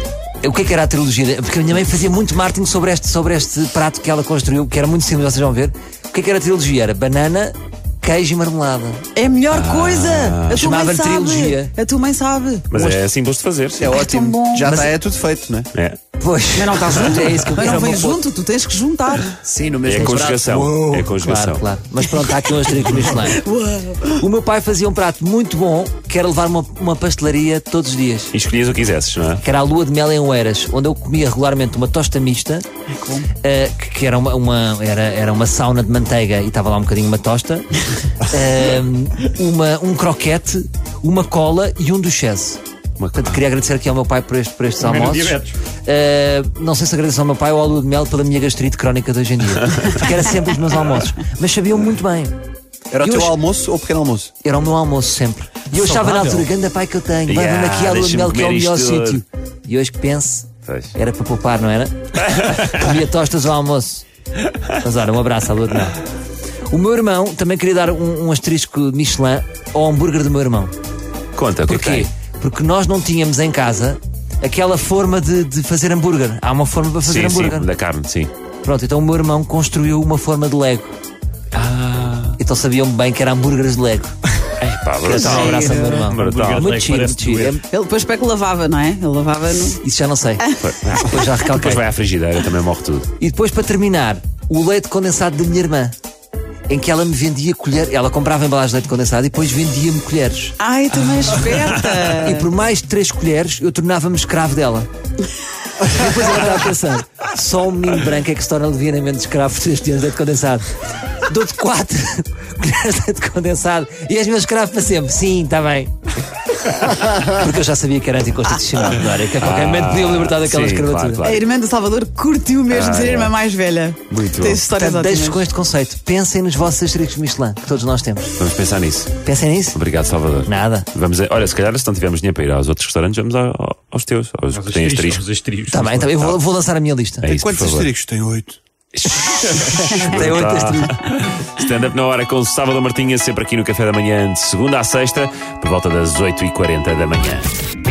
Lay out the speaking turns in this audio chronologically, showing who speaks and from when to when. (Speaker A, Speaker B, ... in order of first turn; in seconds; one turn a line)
Speaker A: 0.4-9.0
Speaker B: 9.2-12.7
Speaker C: 9.5-10.8
Speaker A: 10.5-11.7
Speaker C: 12.7-14.0
Speaker D: 13.8-15.7
Speaker B: 13.9-14.7
Speaker A: 14.6-15.0
Speaker C: 15.7-16.0
Speaker A: 16.2-18.2
Speaker B: 16.6-19.4
Speaker D: 19.4-20.9
Speaker C: 19.8-21.6
Speaker A: 21.0-23.5
Speaker B: 23.1-24.2
Speaker A: 24.1-28.4
Speaker C: 28.3-29.4
Speaker A: 29.4-32.7
Speaker A: 33.3-42.6
Speaker C: 43.0-43.4
Speaker A: 43.2-52.4
Speaker E: 44.8-45.6
Speaker D: 52.9-54.3
Speaker A: 53.0-53.4
Speaker A: 54.4-64.0
Speaker D: 56.0-56.4
Speaker C: 57.3-59.2
Speaker C: 60.7-60.9
Speaker C: 62.4-62.8
Speaker A: 64.8-66.0
Speaker A: 66.7-70.7
Speaker C: 71.3-72.1
Speaker A: 71.7-77.7
Speaker C: 77.0-78.3
Speaker A: 78.6-80.9
Speaker C: 81.5-82.4
Speaker A: 82.4-84.1
Speaker C: 84.6-86.8
Speaker A: 85.0-87.6
Speaker E: 85.1-87.6
Speaker B: 85.3-85.9
Speaker B: 87.7-89.8
Speaker A: 89.8-91.9
Speaker C: 90.6-93.1
Speaker A: 93.2-95.9
Speaker A: 96.7-100.6
Speaker B: 100.6-102.5
Speaker A: 102.0-104.9
Speaker A: 105.8-110.7
Speaker A: 111.2-115.9
Speaker A: 116.6-121.2
Speaker C: 119.4-121.5
Speaker B: 121.2-125.5
Speaker C: 122.7-123.4
Speaker C: 124.1-124.7
Speaker A: 124.8-128.3
Speaker C: 128.4-129.2
Speaker A: 129.2-129.8
Speaker C: 129.7-135.2
Speaker A: 130.5-130.9
Speaker E: 134.5-136.1
Speaker A: 135.7-137.3
Speaker C: 136.1-136.4
Speaker C: 137.2-137.9
Speaker D: 137.3-138.6
Speaker C: 138.9-147.5
Speaker A: 139.6-141.0